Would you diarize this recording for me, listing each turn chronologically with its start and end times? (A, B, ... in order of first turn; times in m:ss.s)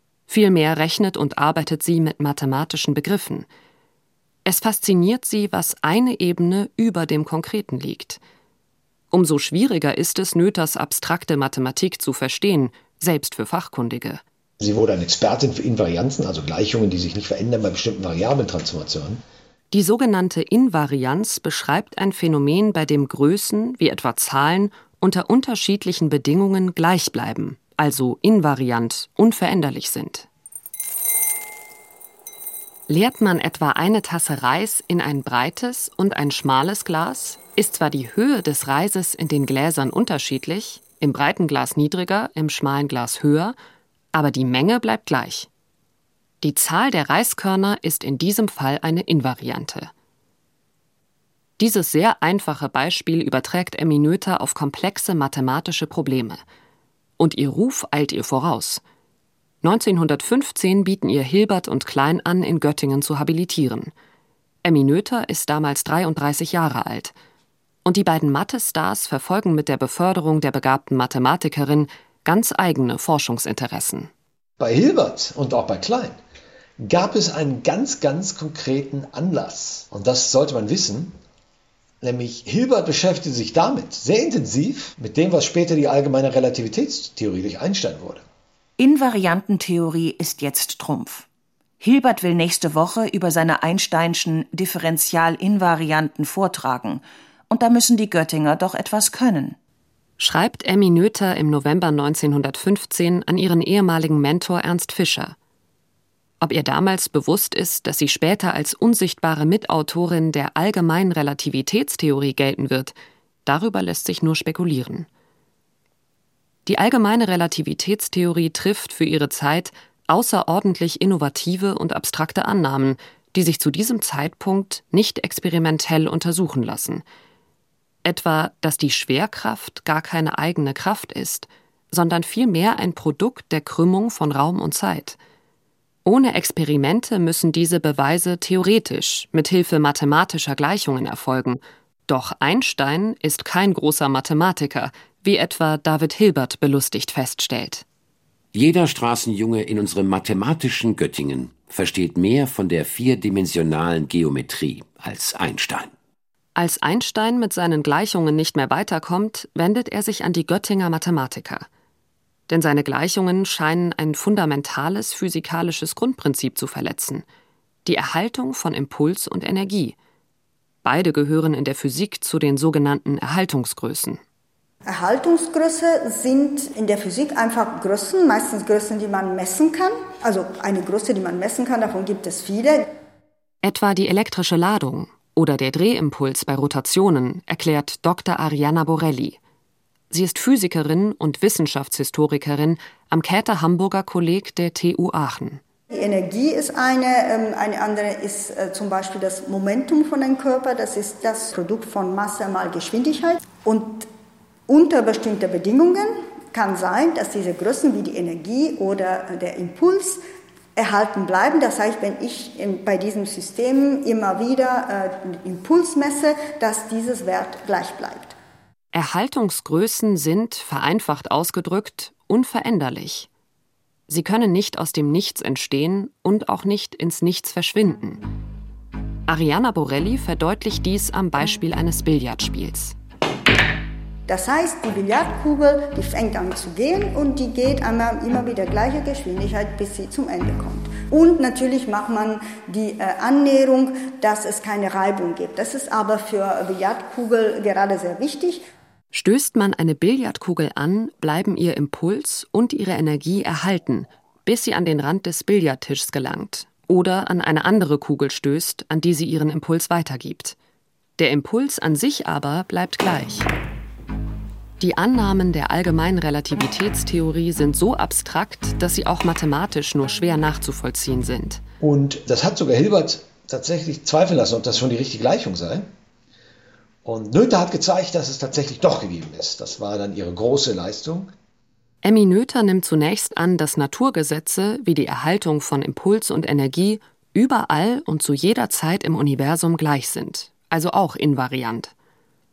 0:00.3-0:03.5 A
0:04.4-0:08.2 A
0:09.1-0:14.2 A
0:14.6-0:19.2 B
0:19.7-0:30.3 A
0:32.9-0:43.6 A
0:44.1-0:45.5 A
0:46.4-0:49.9 A
0:51.6-0:56.4 A
0:57.2-0:58.8 A
0:59.6-1:03.9 A
1:04.6-1:07.1 A
1:07.8-1:14.1 A
1:14.6-1:16.2 B
1:16.8-1:21.1 B
1:22.0-1:28.2 B
1:28.8-1:31.2 C
1:31.8-1:39.6 C
1:40.2-1:45.4 A
1:46.4-1:55.1 A
1:56.6-2:07.0 A
2:08.0-2:15.2 A
2:16.0-2:27.8 A
2:28.5-2:35.9 D
2:36.6-2:41.7 A
2:42.5-2:47.2 A
2:47.8-2:50.0 A
2:50.8-2:54.2 A
2:54.8-3:02.9 E
3:03.6-3:09.4 A
3:10.1-3:15.6 A
3:15.9-3:24.1 E
3:24.7-3:30.2 E
3:30.8-3:38.3 E
3:38.9-3:43.3 A
3:44.1-3:48.2 A
3:49.3-3:53.0 A
3:54.3-4:08.6 E
4:09.1-4:20.6 A
4:21.2-4:23.5 A
4:24.8-4:31.6 A
4:31.8-4:35.9 B
4:37.0-4:41.3 B
4:42.0-4:51.9 A